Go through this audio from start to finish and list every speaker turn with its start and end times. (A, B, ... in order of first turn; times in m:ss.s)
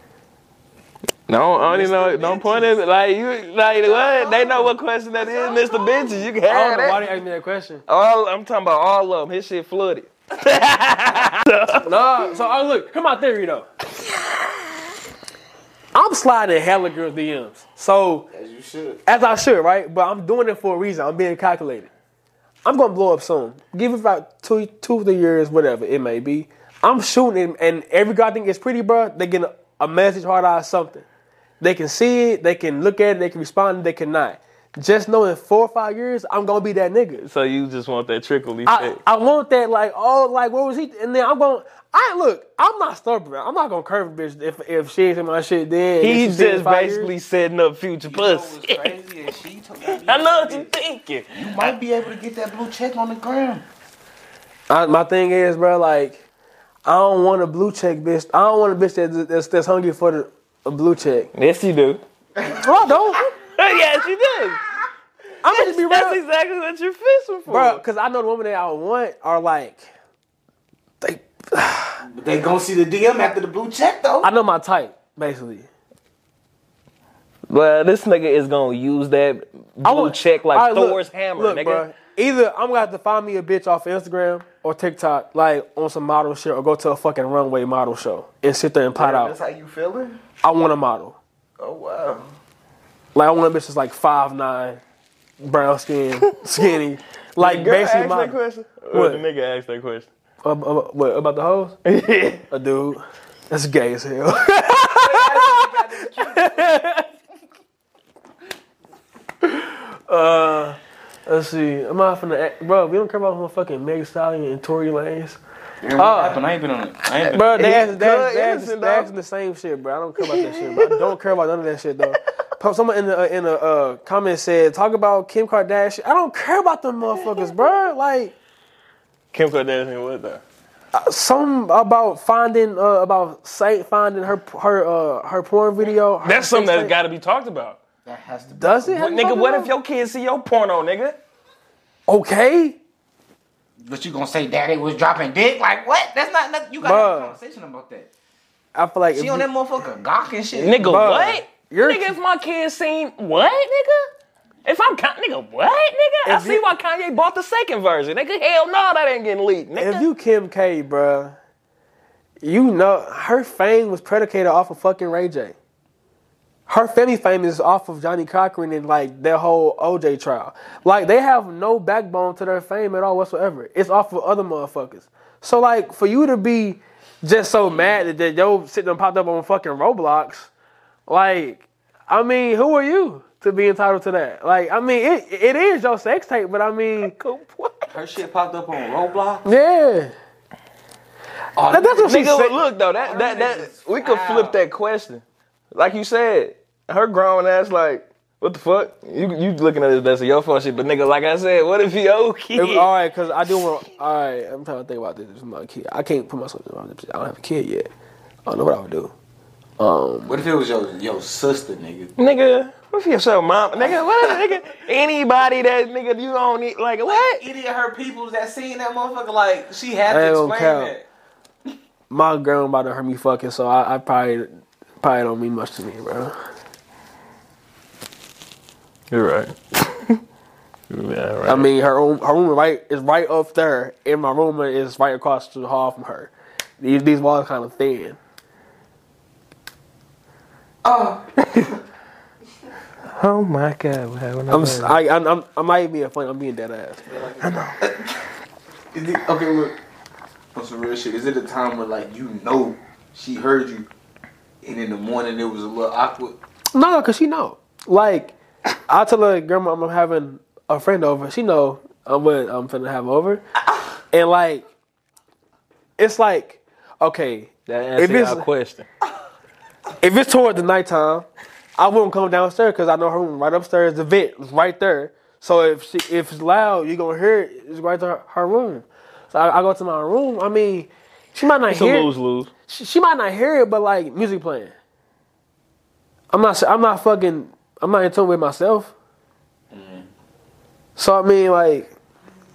0:01.3-0:07.0 A
0:01.6-0:02.8 B
0:03.7-0:06.1 B
0:06.5-0:07.8 C
0:07.9-0:11.9 A
0:11.8-0:13.6 C
0:15.9-0:18.3 C
0:18.3-0:19.0 B
0:19.0-0:21.9 C
0:22.6-0:31.0 C
0:31.6-0:37.2 C
0:37.2-0:39.0 A
0:38.6-0:47.1 C
0:46.0-0:48.9 A
0:48.0-0:50.7 B
0:49.9-0:51.7 A
0:51.3-0:53.6 B
0:54.7-0:56.2 C
0:56.8-1:01.3 C
1:01.3-1:02.0 A
1:02.4-1:03.3 C
1:03.5-1:04.6 A
1:05.4-1:06.2 C
1:05.5-1:07.8 A
1:07.5-1:09.9 C
1:11.0-1:12.0 C
1:12.0-1:14.3 B
1:14.2-1:15.7 C
1:17.5-1:21.8 A
1:19.8-1:29.3 C
1:28.9-1:30.2 B
1:30.4-1:31.2 C
1:31.6-1:32.3 B
1:33.1-1:34.8 C
1:35.4-1:38.3 C
1:37.4-1:40.1 A
1:38.9-1:39.2 C
1:40.4-1:41.8 C
1:41.8-1:42.4 A
1:42.5-1:47.1 C
1:44.9-1:46.8 B
1:49.4-1:55.4 C
1:55.8-1:57.7 B
1:56.0-1:56.4 C
1:57.3-2:08.3 C
1:57.3-1:59.1 A
2:00.2-2:01.2 A
2:09.3-2:10.4 A
2:10.9-2:16.9 C
2:16.2-2:17.8 A
2:18.0-2:19.0 B
2:18.5-2:19.7 C
2:18.9-2:21.2 A
2:22.1-2:22.8 C
2:23.8-2:28.1 B
2:26.8-2:27.4 C
2:28.7-2:29.5 C
2:29.1-2:30.8 B
2:30.6-2:34.0 A
2:30.7-2:32.1 C
2:34.6-2:40.0 A
2:36.2-2:36.6 C
2:39.7-2:41.3 C
2:42.4-2:45.6 C
2:46.7-3:00.5 C
3:01.1-3:07.1 C
3:07.0-3:07.9 A
3:07.9-3:09.5 B
3:09.4-3:10.1 C
3:11.5-3:12.3 B
3:11.7-3:12.6 C
3:12.0-3:15.2 A
3:12.9-3:14.6 B
3:15.7-3:22.9 A
3:22.6-3:27.9 C
3:28.4-3:29.1 C
3:29.8-3:30.4 C
3:30.2-3:32.1 B
3:32.2-3:37.4 A
3:33.8-3:34.5 B
3:37.0-3:41.0 B
3:40.1-3:40.9 C
3:42.1-3:46.3 C
3:49.1-3:50.2 A
3:50.9-3:51.7 A
3:51.5-3:58.2 C
4:00.8-4:01.2 B
4:03.1-4:04.9 A
4:04.5-4:07.0 C
4:07.1-4:08.2 B
4:07.4-4:07.8 A
4:08.9-4:09.8 B
4:10.5-4:13.9 B
4:14.6-4:16.4 B
4:16.7-4:18.3 C
4:18.9-4:23.4 C
4:24.1-4:24.6 C
4:26.0-4:28.4 C
4:27.8-4:28.8 A
4:30.0-4:31.2 C
4:31.8-4:42.1 C
4:41.7-4:42.5 A
4:42.7-4:44.7 C
4:46.3-4:48.9 C
4:49.7-4:50.1 B
4:51.0-4:51.9 C